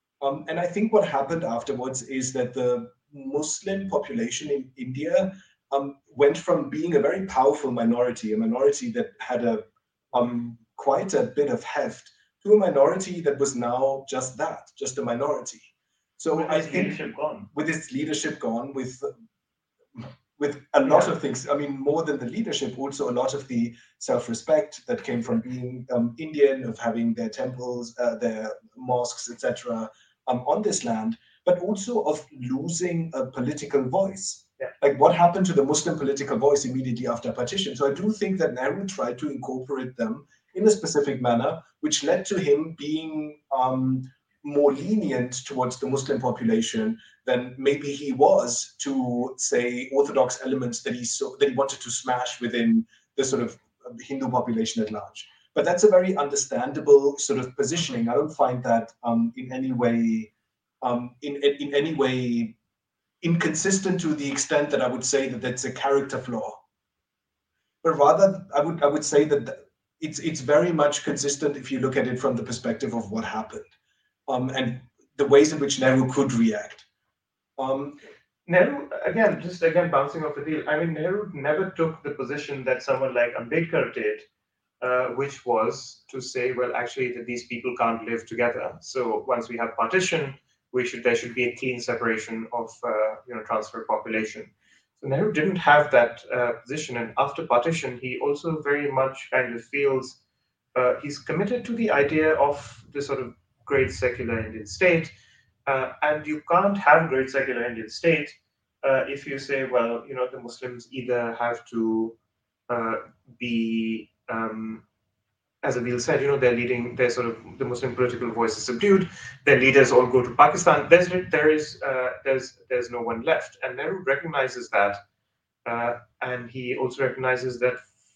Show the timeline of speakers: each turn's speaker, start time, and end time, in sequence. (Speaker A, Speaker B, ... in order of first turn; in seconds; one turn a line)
Speaker A: 0.2-17.0
Speaker B: 16.3-17.5
Speaker A: 17.5-19.1
Speaker A: 20.0-62.6
Speaker B: 20.9-21.1
Speaker A: 63.2-66.6
Speaker A: 67.8-73.7
Speaker A: 74.3-76.8
Speaker A: 77.6-78.0
Speaker B: 78.5-84.3
Speaker B: 84.8-100.2
Speaker B: 100.8-105.1
Speaker B: 105.7-112.2
Speaker B: 112.7-114.8
Speaker B: 115.6-125.0
Speaker B: 125.7-127.9